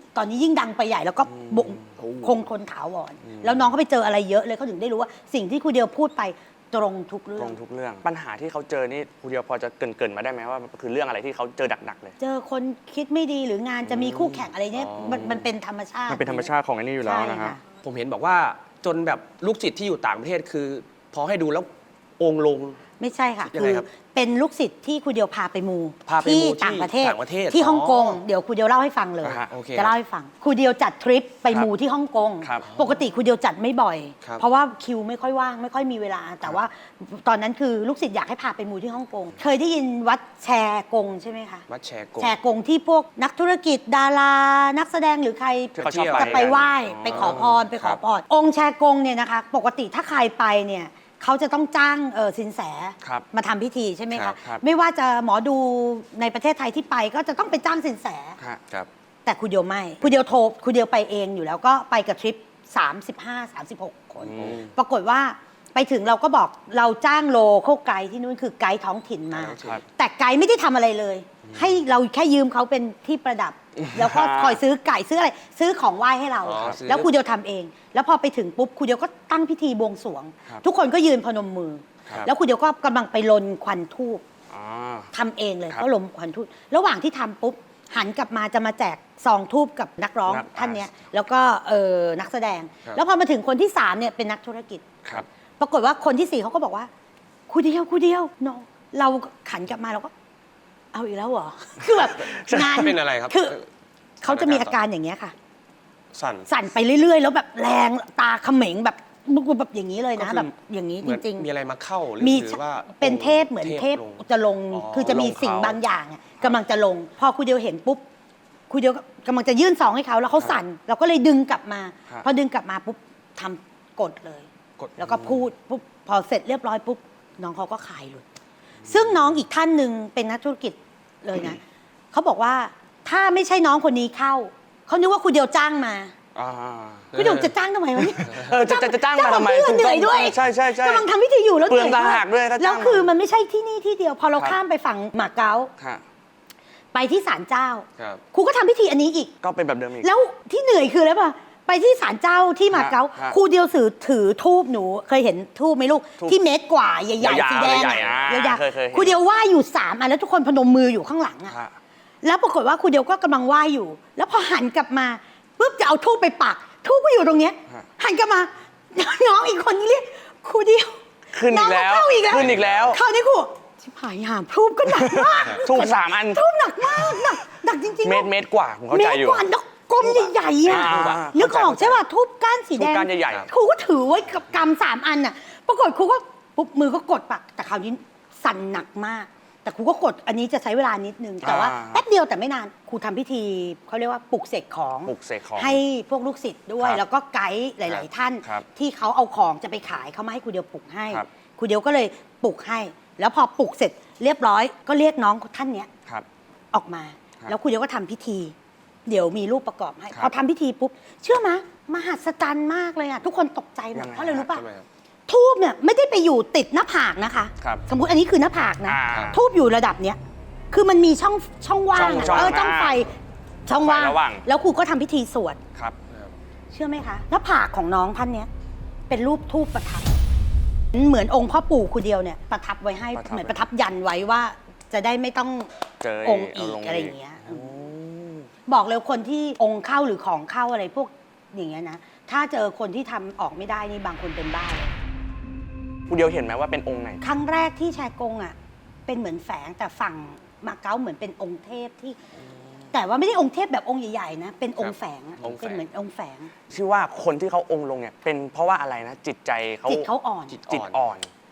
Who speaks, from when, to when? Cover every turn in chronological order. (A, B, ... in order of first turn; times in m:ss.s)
0:00.2-0:07.6 A
0:01.3-0:02.0 B
0:02.0-0:02.3 C
0:03.3-0:03.7 B
0:07.4-0:12.2 B
0:12.2-0:16.5 A
0:13.9-0:14.5 B
0:14.7-0:15.2 C
0:15.0-0:15.5 B
0:16.1-0:17.6 B
0:17.0-0:17.6 A
0:17.8-0:22.8 C
0:23.0-0:41.7 A
0:23.4-0:23.9 C
0:26.1-0:28.2 C
0:29.2-0:29.5 B
0:29.5-0:30.0 C
0:32.4-0:32.7 B
0:32.7-0:33.0 C
0:41.7-0:42.4 C
0:42.2-0:58.4 A
0:45.8-0:47.6 B
0:45.8-0:46.5 C
0:47.1-0:48.0 C
0:53.0-0:53.3 B
0:54.3-0:54.6 B
0:59.2-1:24.2 A
1:04.2-1:04.7 B
1:09.3-1:09.8 C
1:11.5-1:11.7 C
1:13.8-1:14.6 B
1:16.4-1:17.1 C
1:24.5-1:25.1 B
1:25.1-1:34.9 A
1:30.3-1:30.8 B
1:35.6-1:36.9 A
1:37.5-1:40.1 A
1:40.9-1:43.6 A
1:41.8-1:42.8 B
1:42.5-1:43.7 C
1:44.2-1:45.4 A
1:44.3-1:44.8 C
1:46.1-1:46.5 C
1:46.5-1:51.5 A
1:50.2-1:50.5 C
1:51.0-1:55.3 C
1:52.2-1:58.0 A
1:55.0-1:55.8 B
1:58.7-2:08.2 A
2:08.9-2:11.6 A
2:12.1-2:16.1 A
2:16.4-2:17.1 B
2:17.1-2:17.5 C
2:17.1-2:25.7 A
2:18.2-2:21.1 B
2:21.7-2:23.1 B
2:25.8-2:26.0 B
2:26.9-2:29.3 A
2:29.4-2:30.1 B
2:30.0-2:41.6 A
2:32.7-2:33.4 B
2:37.2-2:39.2 B
2:42.2-2:58.3 A
2:51.3-2:53.0 B
2:52.3-2:53.0 C
2:54.9-2:57.4 B
2:58.0-2:59.5 B
2:58.9-3:25.9 A
3:00.0-3:01.4 B
3:00.6-3:02.0 C
3:02.8-3:03.5 B
3:11.4-3:12.0 B
3:15.1-3:15.8 B
3:26.7-3:28.5 A
3:29.1-3:34.6 A
3:34.0-3:34.5 B
3:34.4-3:34.9 C
3:35.3-3:40.2 A
3:37.6-3:37.8 B
3:38.9-3:39.4 B
3:39.1-3:39.4 C
3:40.7-3:43.1 A
3:41.9-3:43.1 B
3:43.7-3:45.6 A
3:43.7-3:44.4 B
3:46.1-3:46.4 C
3:46.7-3:48.5 A
3:49.1-3:50.2 A
3:50.9-3:55.7 A
3:53.2-3:53.7 B
3:56.0-3:58.5 B
3:56.2-3:57.7 A
3:58.7-4:04.9 A
4:06.1-4:07.2 B
4:07.2-4:08.6 A
4:09.1-4:12.2 A
4:12.9-4:16.5 A
4:14.8-4:15.8 C
4:16.7-4:20.1 B
4:19.9-4:20.6 A
4:20.5-4:21.0 C
4:20.7-4:21.3 B